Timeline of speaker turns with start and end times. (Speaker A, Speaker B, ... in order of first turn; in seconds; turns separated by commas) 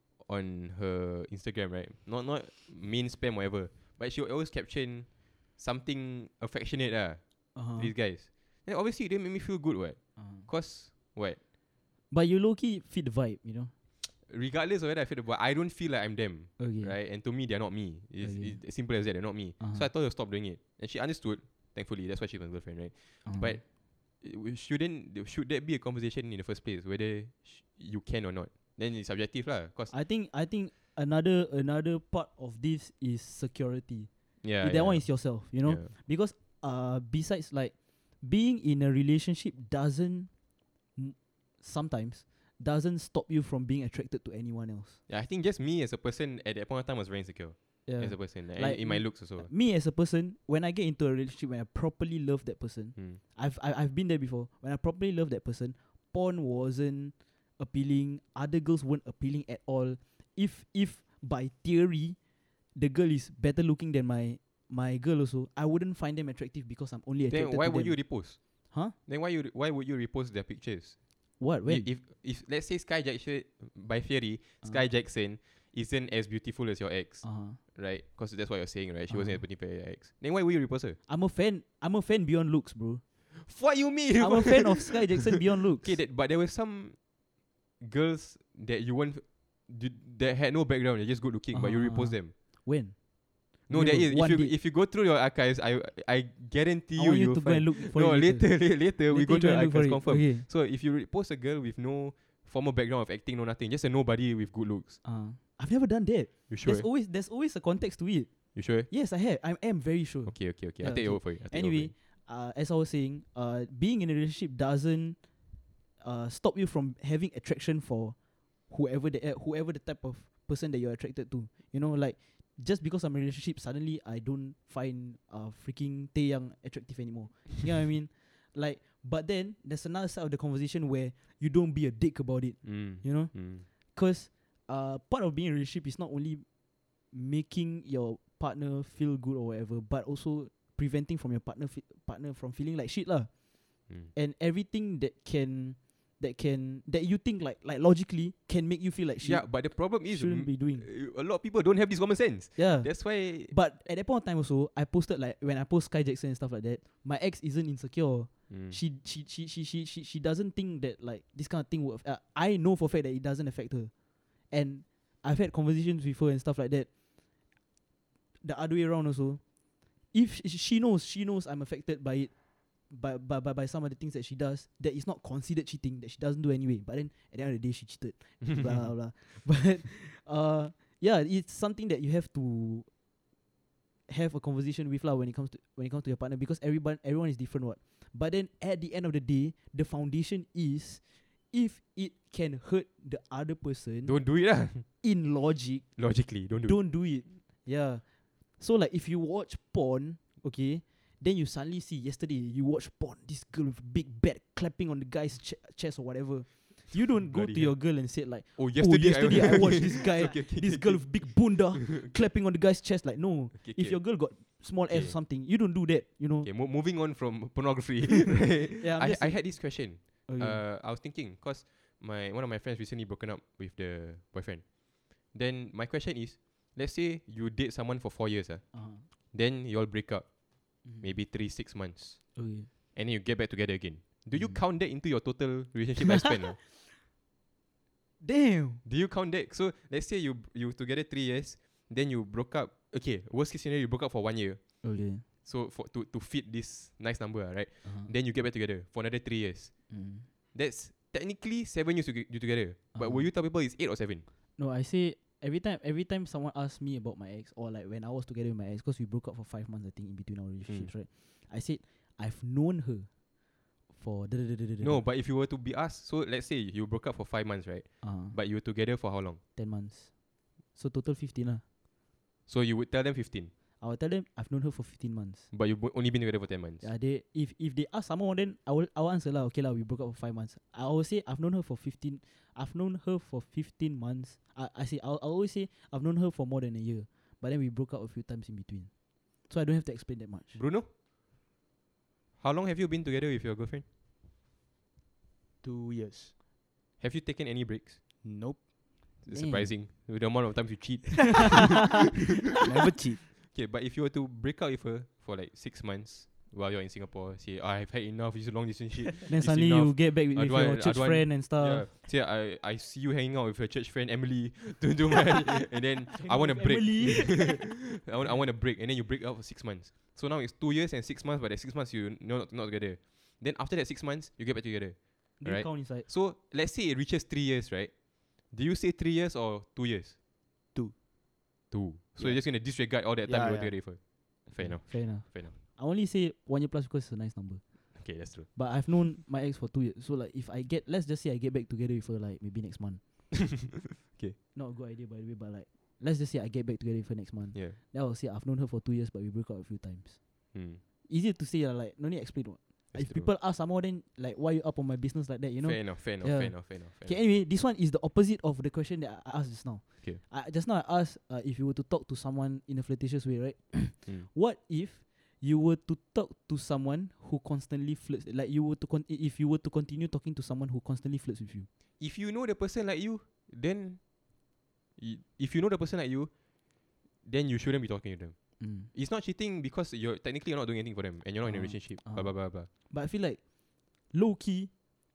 Speaker A: 0.2-11.4, Speaker B: 7.5-7.9, Speaker B: 10.2-10.5, Speaker B: 12.1-13.7, Speaker A: 14.2-23.6, Speaker B: 16.6-16.9, Speaker B: 18.2-18.6, Speaker B: 19.6-19.9, Speaker B: 23.2-23.6, Speaker A: 24.2-29.9, Speaker B: 29.9-40.3, Speaker A: 34.4-35.9, Speaker B: 41.0-45.0, Speaker A: 45.1-49.5, Speaker B: 47.9-62.2, Speaker B: 62.7-68.9, Speaker A: 67.3-71.0, Speaker B: 71.4-71.9, Speaker A: 71.6-81.0, Speaker B: 77.2-77.6, Speaker B: 79.1-79.4, Speaker B: 81.1-83.0, Speaker A: 83.3-87.1, Speaker B: 84.2-86.0, Speaker A: 87.8-92.3, Speaker B: 91.5-94.5, Speaker A: 93.7-105.0, Speaker B: 97.0-100.4, Speaker B: 105.0-115.2, Speaker A: 106.5-106.9, Speaker A: 108.5-108.9, Speaker A: 110.3-111.9, Speaker B: 116.0-136.4, Speaker A: 132.6-133.6, Speaker B: 137.0-143.3, Speaker B: 144.1-150.8, Speaker A: 149.2-153.5, Speaker B: 152.6-163.9, Speaker A: 158.5-158.8, Speaker B: 164.5-166.9, Speaker B: 168.4-169.4, Speaker B: 170.1-172.3, Speaker B: 172.9-182.9, Speaker B: 184.1-194.2, Speaker A: 194.0-194.8, Speaker B: 195.0-198.0, Speaker A: 196.0-196.8, Speaker B: 198.6-216.5, Speaker A: 207.2-207.8, Speaker A: 208.6-212.1, Speaker A: 213.6-214.1, Speaker A: 214.9-215.2, Speaker A: 216.4-224.7, Speaker B: 218.7-220.6, Speaker A: 225.2-228.6, Speaker B: 228.7-229.0, Speaker A: 229.3-232.3, Speaker B: 232.3-232.7, Speaker A: 232.9-236.6, Speaker B: 234.3-234.6, Speaker B: 238.2-238.8, Speaker A: 238.8-244.6, Speaker B: 244.8-245.2, Speaker A: 245.4-249.7, Speaker B: 249.9-250.2, Speaker A: 250.5-254.2, Speaker B: 252.9-253.3, Speaker B: 254.6-263.1, Speaker B: 263.9-265.0, Speaker A: 264.8-269.4, Speaker B: 268.0-268.3, Speaker B: 269.6-270.1, Speaker B: 270.7-271.6, Speaker A: 272.5-273.5, Speaker B: 273.8-275.5, Speaker A: 275.5-276.9, Speaker B: 276.8-288.9, Speaker B: 289.4-290.6, Speaker A: 290.5-290.9, Speaker A: 292.4-293.8, Speaker C: 295.6-296.3, Speaker A: 297.0-298.0, Speaker C: 298.2-298.7, Speaker A: 299.2-301.9, Speaker B: 299.3-299.7, Speaker C: 301.9-303.2, Speaker A: 303.4-327.9, Speaker B: 309.3-311.9, Speaker B: 316.2-317.6, Speaker B: 325.4-326.1, Speaker A: 328.5-330.1, Speaker A: 331.7-335.5, Speaker C: 332.2-332.6, Speaker C: 333.2-333.8, Speaker B: 334.5-337.6, Speaker A: 337.9-338.5, Speaker B: 338.5-343.3, Speaker B: 344.5-350.2, Speaker A: 350.5-350.8, Speaker B: 351.1-371.7, Speaker A: 352.9-353.3, Speaker A: 355.6-357.2, Speaker A: 372.0-374.0, Speaker A: 375.0-376.3, Speaker A: 377.2-382.7, Speaker B: 378.6-378.9, Speaker B: 381.4-383.4, Speaker B: 384.1-384.7